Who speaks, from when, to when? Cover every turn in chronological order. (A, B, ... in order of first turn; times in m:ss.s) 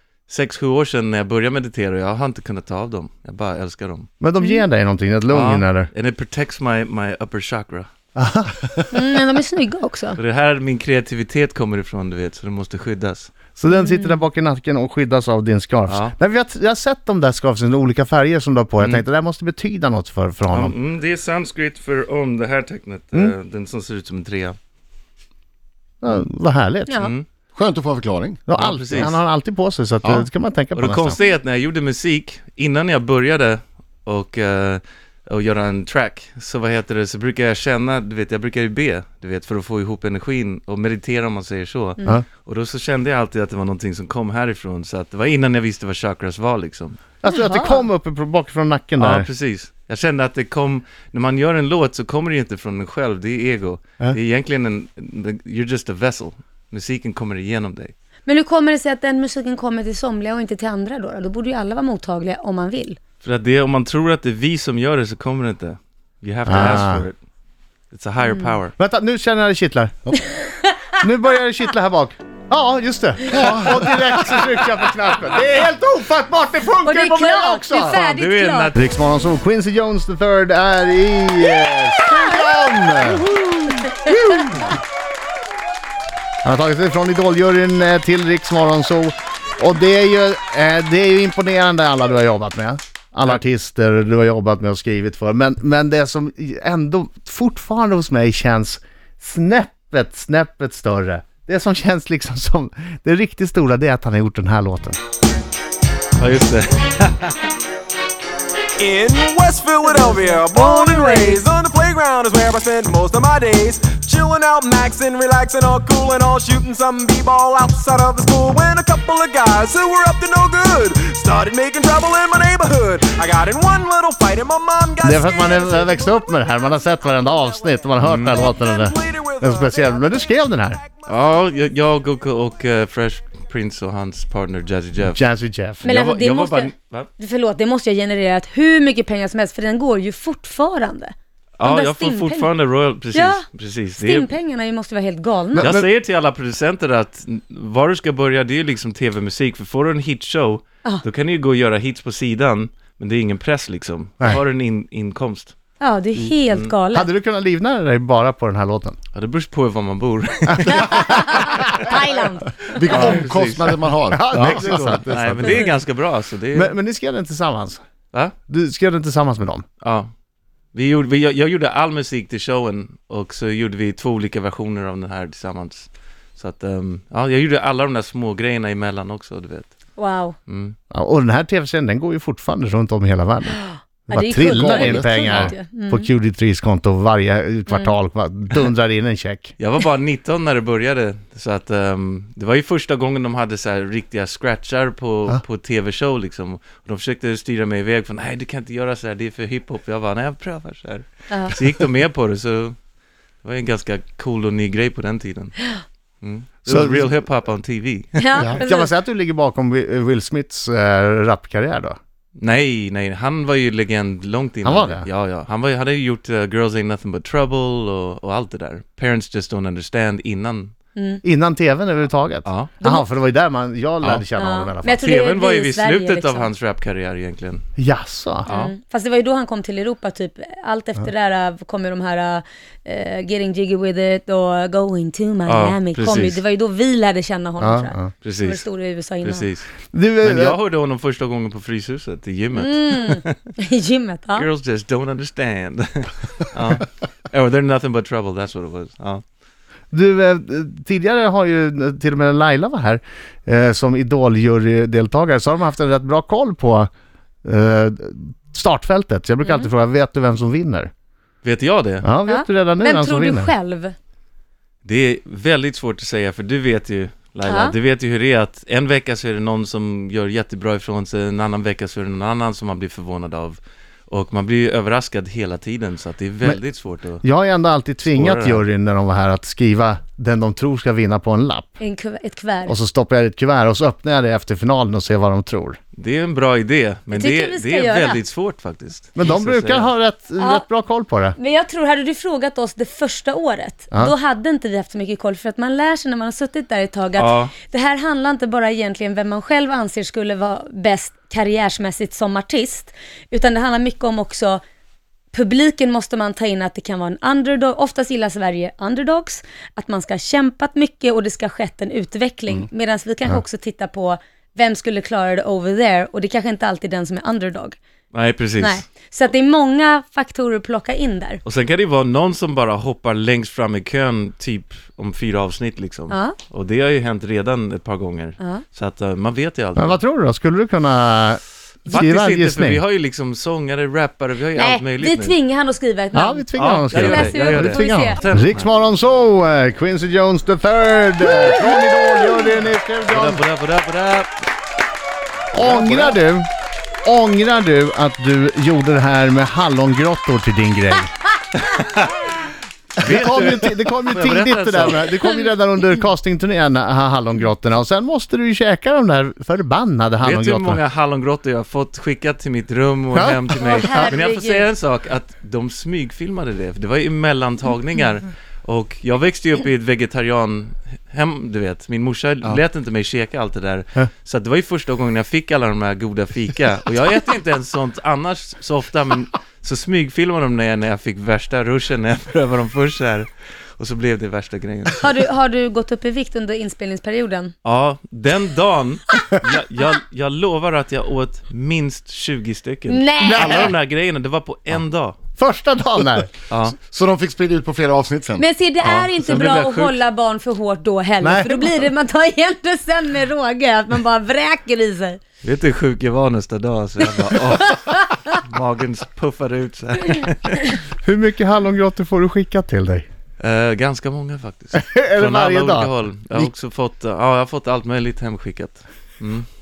0:00.3-0:04.1 A
0:04.2-0:05.9 B
0:05.3-0:07.9 A
0:08.2-0:08.9 B
0:08.9-0:10.2 C
0:10.2-0:13.3 A
0:13.6-0:20.7 B
0:13.7-0:14.2 C
0:15.9-0:16.1 A
0:18.8-0:19.0 A
0:20.5-0:24.6 A
0:26.0-0:27.1 B
0:27.0-0:27.2 A
0:27.5-0:28.4 D
0:28.5-0:31.2 B
0:28.5-0:29.2 A
0:30.0-0:47.0 A
0:47.2-0:49.3 B
0:47.2-0:47.9 C
0:49.0-0:57.9 A
0:58.2-1:03.0 C
1:03.2-1:07.2 A
1:06.4-1:07.1 B
1:07.9-1:08.7 A
1:08.2-1:08.6 C
1:08.8-1:10.1 B
1:10.3-1:10.8 C
1:11.0-1:18.0 B
1:13.3-1:14.1 D
1:16.8-1:18.7 C
1:17.9-1:18.8 A
1:18.7-1:23.3 B
1:23.2-1:24.4 C
1:24.0-1:24.7 B
1:26.4-1:45.0 B
1:46.2-1:47.5 A
1:48.8-2:06.1 E
1:49.8-1:51.4 C
2:05.0-2:10.8 B
2:08.0-2:08.4 A
2:08.2-2:09.8 E
2:11.0-2:15.2 A
2:15.0-2:15.8 B
2:15.8-2:17.1 A
2:15.8-2:22.5 C
2:21.6-2:24.3 A
2:23.1-2:25.7 C
2:25.5-2:25.9 B
2:25.6-2:35.5 A
2:35.8-2:37.1 C
2:36.9-2:39.0 B
2:39.1-2:41.8 A
2:40.5-2:41.4 B
2:40.7-2:42.7 C
2:42.7-2:44.9 D
2:42.8-2:46.7 A
2:44.1-2:45.7 B
2:46.5-2:47.8 B
2:48.5-2:49.6 B
2:49.8-2:50.1 A
2:50.7-2:59.7 A
3:00.0-3:00.4 C
3:00.5-3:00.7 A
3:00.9-3:09.5 B
3:03.6-3:06.1 C
3:04.5-3:05.5 D
3:09.6-3:22.8 A
3:23.4-3:25.6 A
3:26.2-3:28.2 A
3:26.7-3:27.1 B
3:28.2-3:28.9 C
3:28.4-3:32.0 B
3:32.4-3:40.7 A
3:34.6-3:35.1 B
3:40.9-3:41.2 C
3:41.2-3:45.0 B
3:42.4-3:42.7 A
3:44.4-3:46.5 C
3:45.0-3:47.6 A
3:47.8-3:48.5 B
3:48.5-3:48.7 A
3:48.5-3:59.4 C
3:55.4-3:56.4 A
3:57.6-3:58.1 B
3:58.2-3:59.7 A
3:59.9-4:00.6 B
4:00.2-4:03.4 A
4:02.5-4:04.5 C
4:04.3-4:09.2 A
4:09.9-4:16.9 B
4:17.4-4:20.9 B
4:21.4-4:22.0 A
4:22.0-4:23.5 B
4:22.2-4:23.9 C
4:24.8-4:37.2 A
4:27.5-4:27.7 C
4:37.2-4:41.7 B
4:38.0-4:38.6 A
4:41.8-4:42.8 C
4:42.6-4:45.8 B
4:46.0-4:49.9 A
4:47.1-4:48.2 C
4:49.2-4:51.4 B
4:50.4-4:50.6 C
4:51.4-5:04.6 C
4:57.2-4:57.5 A
5:05.3-5:17.8 C
5:18.1-5:18.8 A
5:18.6-5:21.4 C
5:21.4-5:30.0 A
5:26.1-5:26.4 C
5:28.4-5:28.6 C
5:29.7-5:32.8 B
5:31.9-5:35.4 A
5:34.5-5:38.2 C
5:36.1-5:43.4 B
5:36.6-5:38.7 A
5:41.2-5:42.4 C
5:43.0-5:44.3 A
5:45.5-5:46.2 A
5:45.5-5:46.5 B
5:47.0-5:51.1 B
5:51.7-5:52.0 A
5:52.9-5:55.3 A
5:53.0-6:00.8 B
6:00.2-6:25.1 A
6:03.1-6:04.1 B
6:03.6-6:04.6 C
6:25.0-6:27.5 C
6:27.6-6:35.2 A
6:32.9-6:33.7 C
6:33.2-6:33.7 B
6:35.4-6:36.3 B
6:36.5-6:36.7 A
6:36.7-6:38.4 D
6:38.4-6:45.2 C
6:38.8-6:40.0 A
6:41.2-6:41.8 B
6:45.4-6:50.7 A
6:47.5-6:48.0 C
6:51.0-6:53.0 B
6:53.4-6:59.4 A
6:54.7-6:55.9 B